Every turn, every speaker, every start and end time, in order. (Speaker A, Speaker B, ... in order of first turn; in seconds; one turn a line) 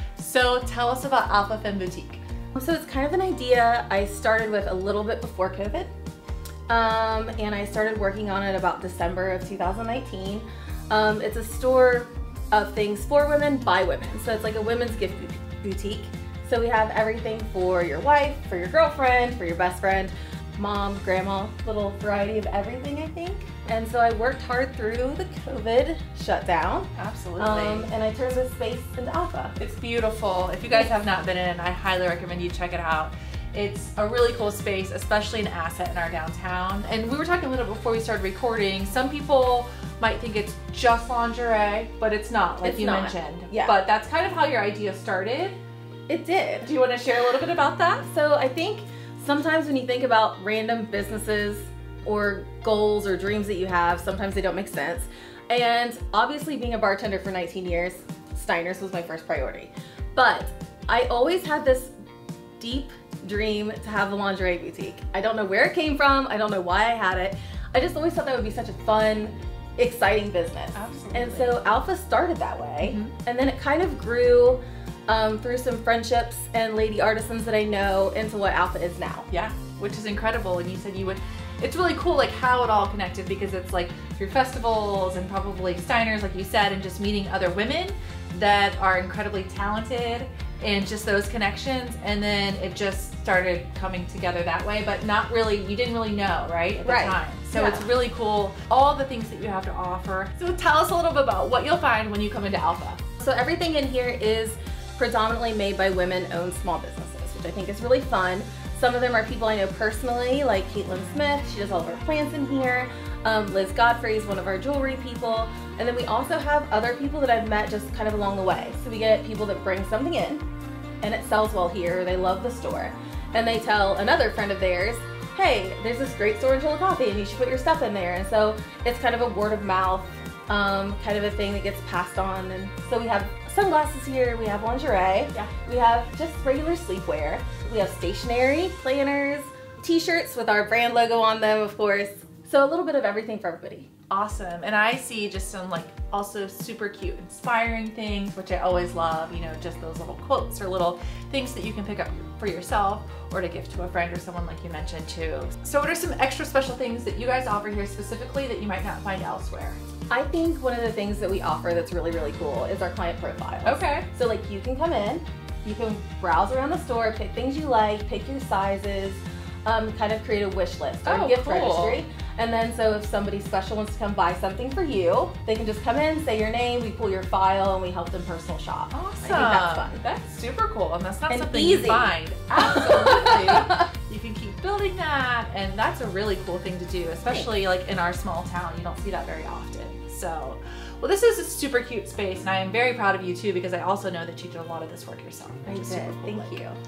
Speaker A: 0.1-2.2
Speaker B: 2.5-5.9
Speaker B: 6.7-29.6
Speaker A: 26.9-27.9
Speaker A: 29.6-45.6
Speaker B: 42.6-43.8
Speaker B: 46.1-46.7
Speaker A: 46.6-48.1
Speaker B: 48.1-61.9
Speaker B: 62.6-79.3
Speaker A: 70.7-71.5
Speaker A: 72.8-73.1
Speaker A: 79.3-103.0
Speaker B: 96.8-97.9
Speaker B: 103.2-120.4
Speaker B: 121.0-143.9
Speaker A: 144.1-159.8
Speaker B: 160.1-180.0
Speaker A: 163.6-164.1
Speaker A: 171.0-172.0
Speaker A: 178.9-196.6
Speaker B: 181.3-183.8
Speaker B: 195.7-196.8